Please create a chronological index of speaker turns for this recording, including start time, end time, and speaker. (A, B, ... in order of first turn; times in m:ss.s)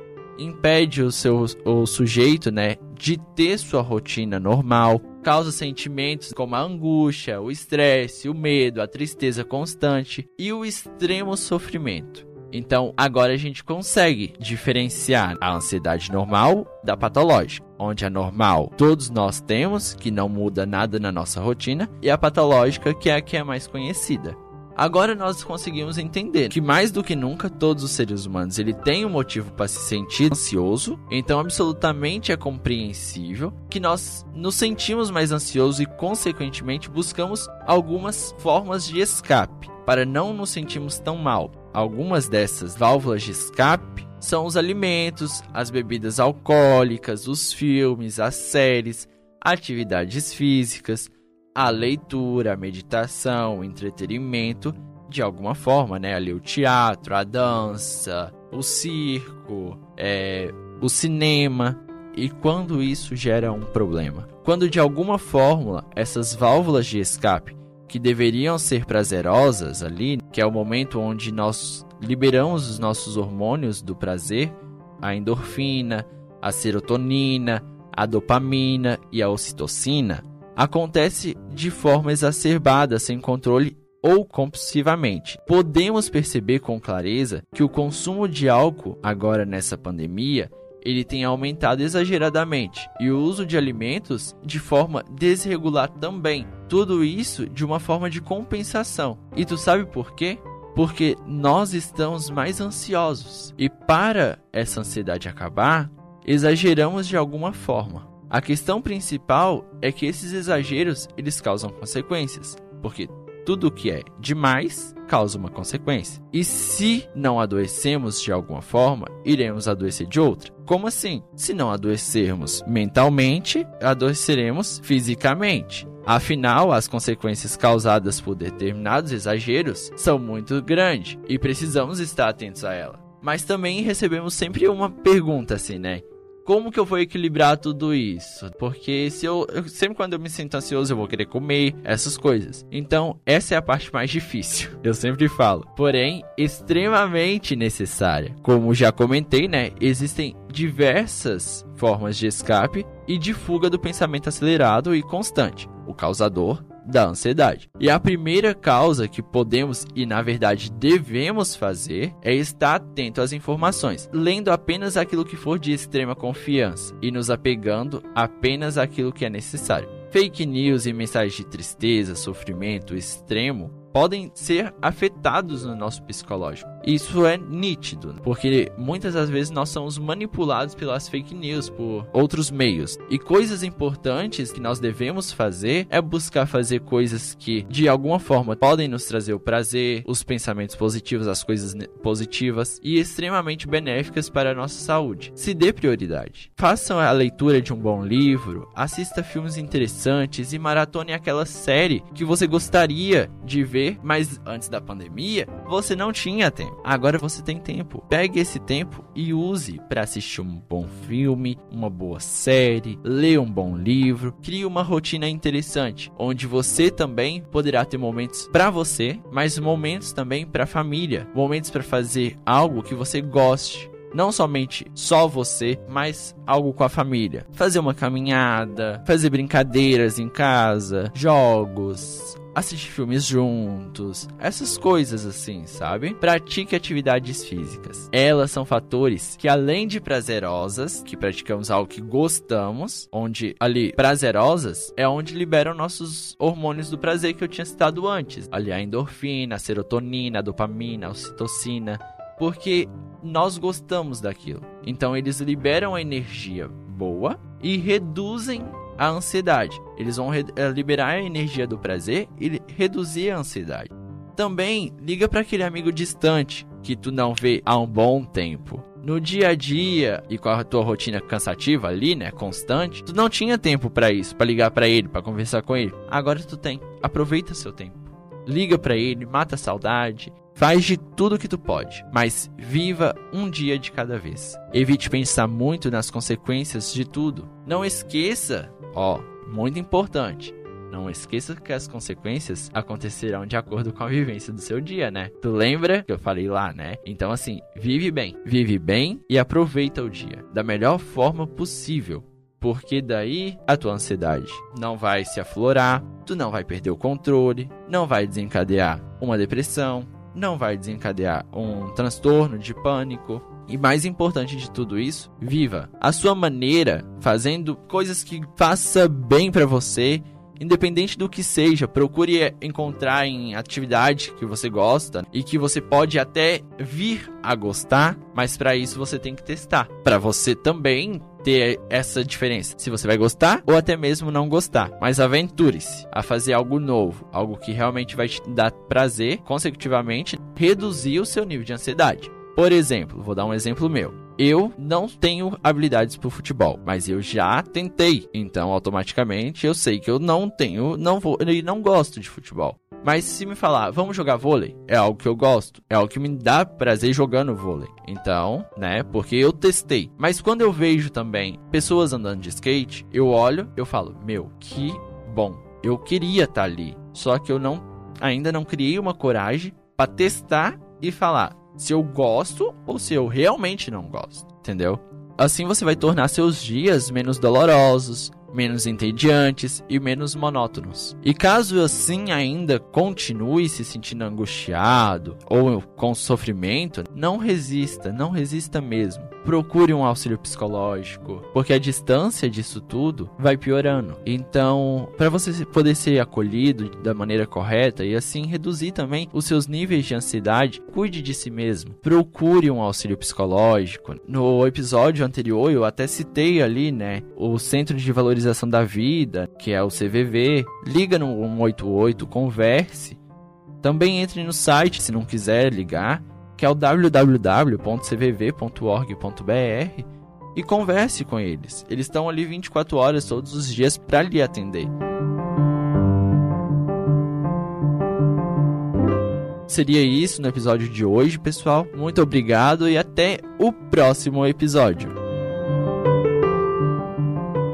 0:00.4-6:53.2 A
6:53.8-7:04.9 A
7:09.7-7:15.1 A